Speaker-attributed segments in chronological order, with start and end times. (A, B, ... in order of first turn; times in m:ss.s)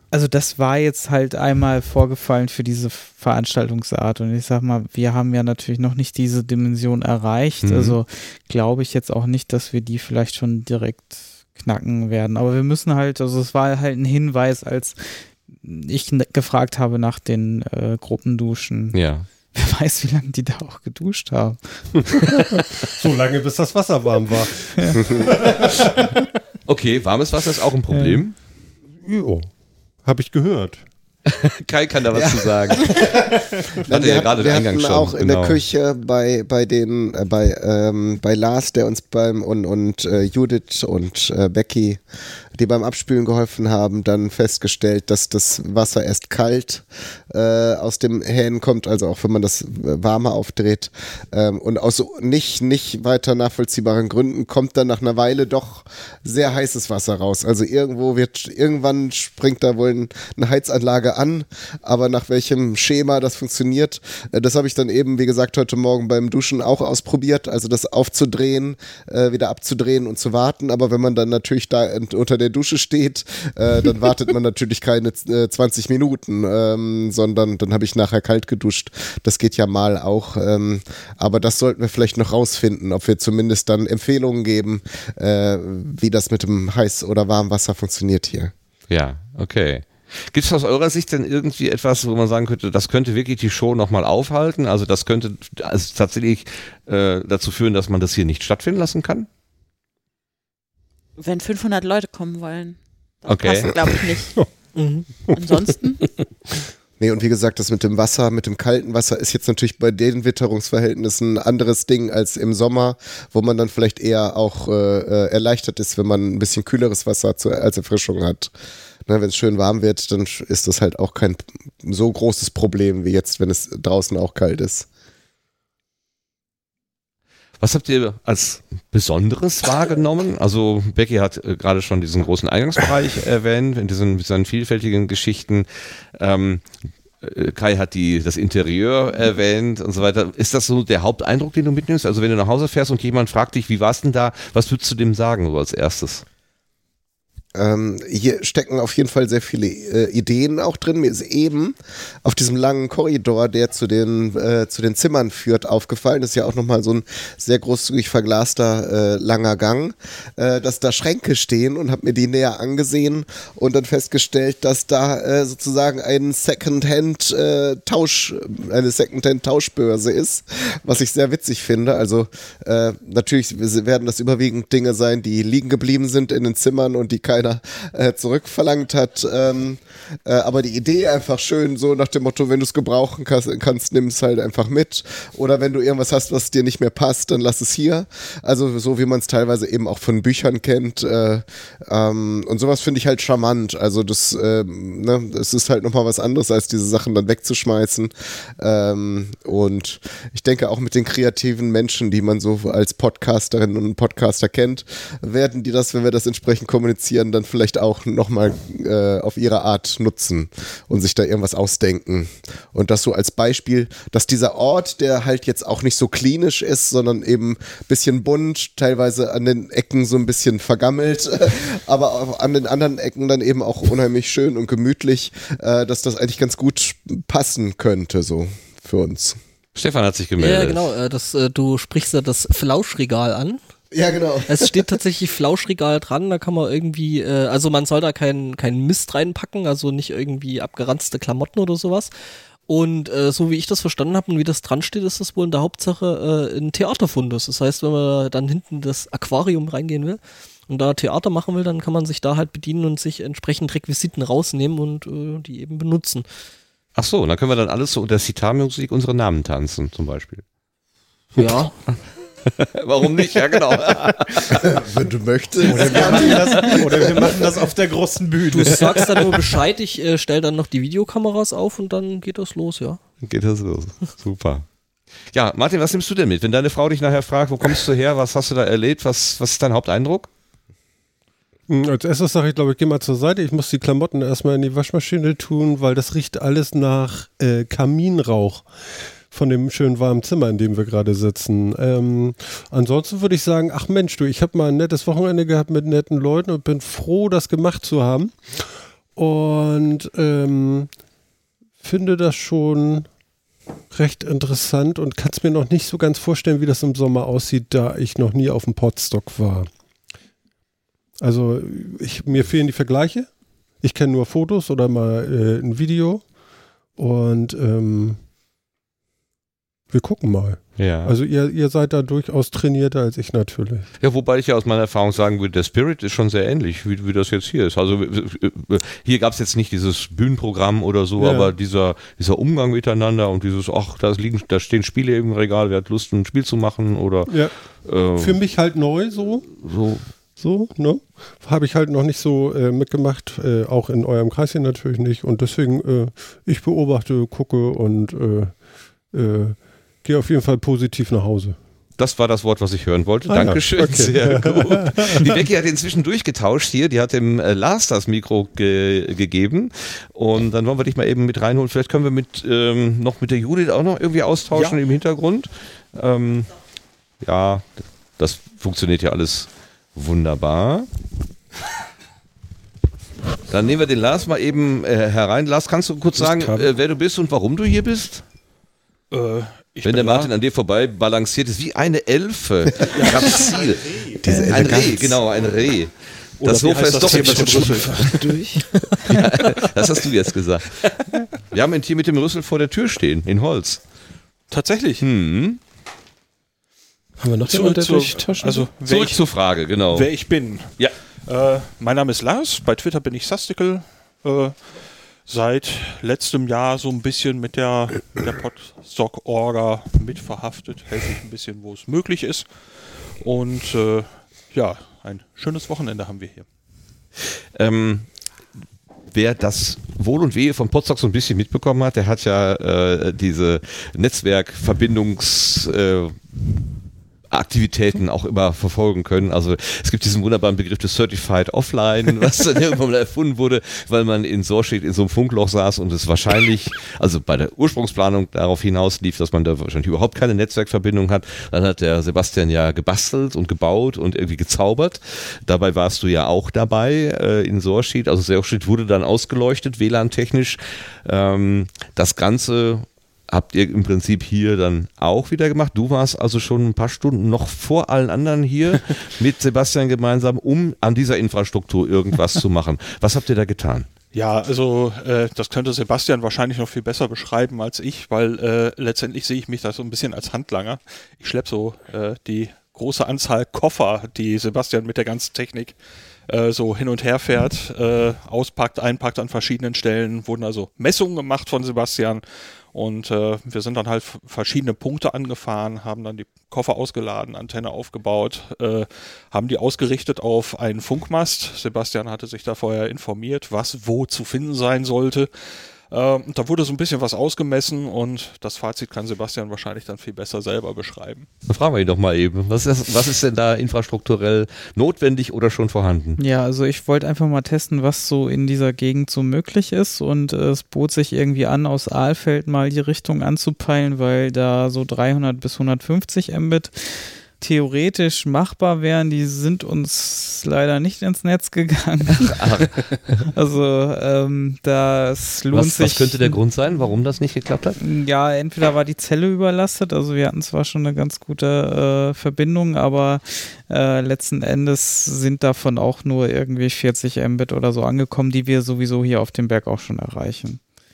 0:00.1-0:19.0 A
0:07.6-0:08.0 B
0:18.9-0:19.3 B
0:19.5-0:22.4 A
0:22.6-0:26.2 C
0:26.7-0:28.4 B
0:27.9-0:28.2 A
0:29.0-0:30.8 C
0:31.3-0:33.1 B
0:32.1-0:33.2 D
0:33.9-0:42.0 D
0:33.9-0:35.6 B
0:42.6-1:28.5 D
1:28.9-1:39.3 B
1:41.2-1:44.4 E
1:43.3-1:43.7 B
1:44.3-1:45.4 C
1:44.7-1:45.2 F
1:45.4-1:46.0 E
1:47.0-1:58.5 D
1:59.1-2:04.9 D
2:07.6-2:16.7 B
2:17.2-2:26.2 B
2:27.6-3:49.4 D
3:49.8-3:50.9 B
3:50.4-3:53.6 F
3:53.9-3:54.7 D
3:54.5-4:02.1 F
4:02.7-4:16.2 F
4:17.0-4:20.4 B
4:21.4-4:21.8 F
4:22.6-4:24.6 B
4:24.5-4:27.2 D
4:25.7-4:29.4 G
4:26.2-4:26.8 B
4:28.5-4:33.0 F
4:33.2-4:34.7 B
4:35.3-4:40.3 B
4:41.7-4:48.7 C
4:49.3-5:00.9 C
5:01.8-5:03.1 C
5:03.9-5:09.7 C
5:11.2-5:16.4 C
5:16.9-5:18.2 C
5:19.9-5:23.9 C
5:20.8-5:21.1 B
5:24.0-5:38.4 B
5:31.2-5:31.5 C
5:37.3-5:39.7 C
5:39.5-5:40.1 B
5:40.4-5:51.6 C
5:52.0-6:06.5 B
5:53.3-5:55.4 C
6:04.5-6:04.8 H
6:07.2-6:10.9 B
6:13.5-6:18.2 B
6:16.2-6:16.7 C
6:19.1-6:20.3 H
6:19.8-6:28.2 B
6:22.9-6:23.7 H
6:24.2-6:25.2 D
6:26.4-6:28.3 H
6:28.2-6:28.9 F
6:29.1-6:33.8 B
6:34.5-6:35.0 H
6:35.0-6:35.6 B
6:37.2-6:38.7 C
6:37.4-6:56.5 H
6:38.8-6:40.9 B
6:57.6-6:58.1 B
6:59.1-7:06.2 B
7:07.3-7:43.9 B
7:44.1-8:15.3 H
8:15.9-8:21.3 H
8:21.5-8:26.2 B
8:26.2-8:42.4 A
8:42.3-8:43.1 B
8:43.3-8:46.4 A
8:45.5-8:47.8 B
8:47.8-9:00.6 A